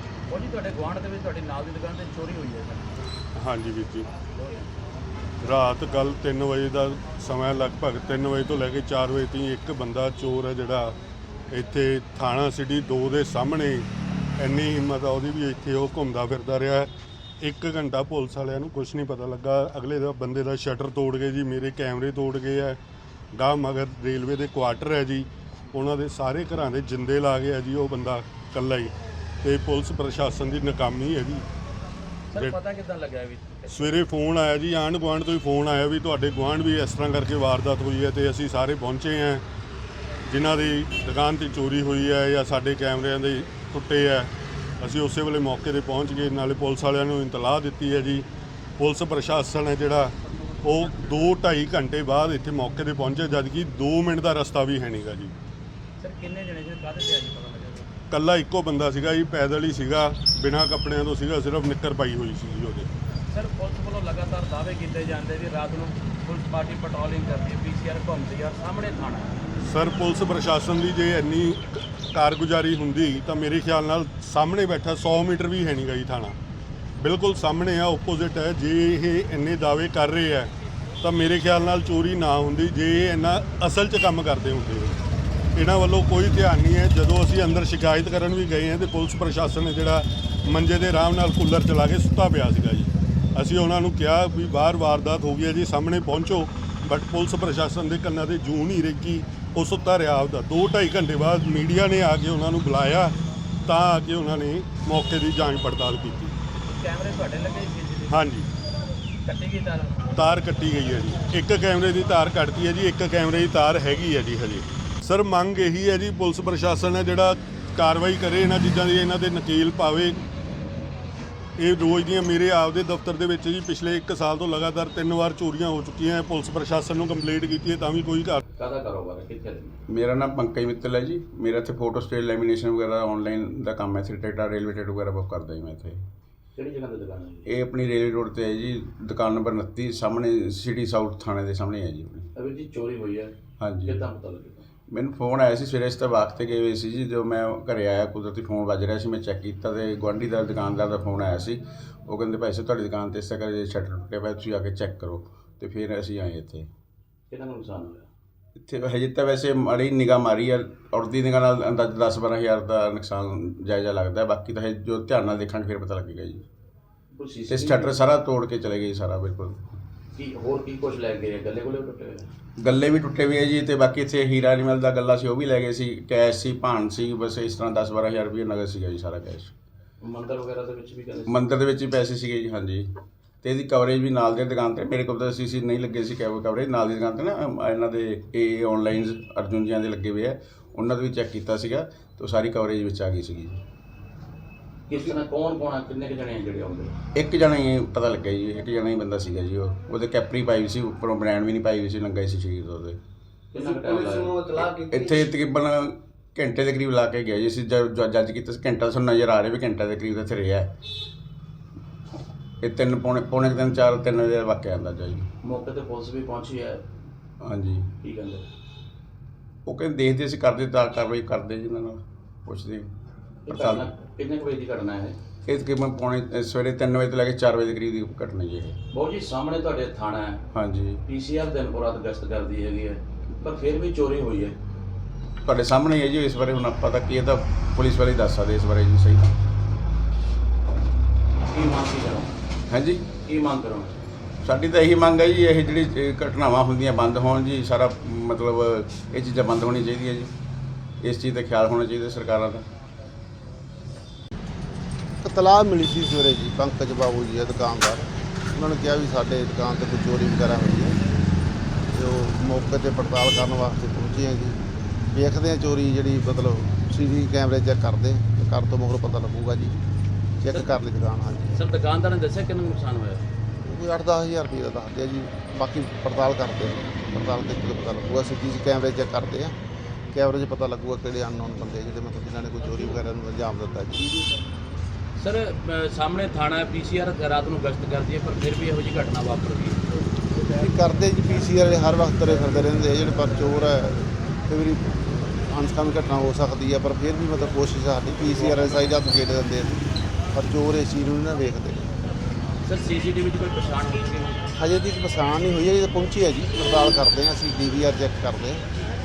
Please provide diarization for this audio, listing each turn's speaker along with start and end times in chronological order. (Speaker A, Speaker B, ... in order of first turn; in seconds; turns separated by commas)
Speaker A: 0.3-2.9, Speaker B: 3.4-4.1, Speaker A: 4.3-4.7, Speaker B: 5.4-11.0, Speaker B: 11.5-16.9, Speaker B: 17.4-22.8, Speaker B: 23.3-31.4, Speaker A: 32.3-34.0, Speaker B: 33.7-39.4, Speaker B: 40.2-48.2, Speaker B: 48.8-55.3, Speaker A: 56.0-57.9, Speaker B: 58.1-62.9, Speaker A: 63.3-69.3, Speaker B: 69.6-76.3, Speaker B: 77.0-80.5, Speaker B: 81.0-85.0, Speaker B: 85.5-103.1, Speaker B: 103.7-106.3, Speaker A: 106.5-108.2, Speaker B: 108.1-108.5, Speaker A: 109.2-110.1, Speaker B: 110.1-120.2, Speaker B: 121.6-128.4, Speaker A: 128.6-129.8, Speaker C: 129.9-136.0, Speaker A: 136.6-137.4, Speaker C: 137.5-142.3, Speaker A: 142.3-144.7, Speaker C: 143.6-144.0, Speaker C: 144.9-156.7, Speaker A: 157.3-158.1, Speaker C: 158.6-166.4, Speaker A: 167.1-168.0, Speaker C: 167.5-169.6, Speaker A: 170.1-172.3, Speaker C: 172.6-179.5, Speaker A: 180.0-181.4, Speaker C: 181.3-182.9, Speaker C: 183.4-193.6, Speaker A: 194.9-196.9, Speaker C: 197.1-203.0, Speaker A: 203.5-204.9, Speaker C: 204.6-210.8, Speaker C: 212.6-215.3, Speaker A: 215.4-216.8, Speaker C: 217.4-217.9, Speaker A: 218.0-218.5, Speaker C: 219.7-222.9, Speaker A: 223.4-225.2, Speaker C: 223.5-223.9, Speaker C: 225.5-228.8, Speaker A: 228.9-230.4, Speaker C: 230.5-231.0, Speaker A: 231.0-234.6, Speaker C: 235.4-239.3, Speaker A: 241.5-242.4, Speaker C: 242.7-243.1, Speaker A: 243.1-244.0, Speaker C: 244.4-250.3, Speaker C: 251.0-252.7, Speaker D: 255.2-261.0, Speaker D: 261.9-264.6, Speaker D: 265.1-269.8, Speaker D: 270.4-271.6, Speaker A: 271.5-273.3, Speaker D: 273.6-279.6, Speaker D: 280.1-284.1, Speaker A: 285.2-289.8, Speaker D: 290.4-301.9, Speaker A: 302.6-304.4, Speaker D: 304.6-308.6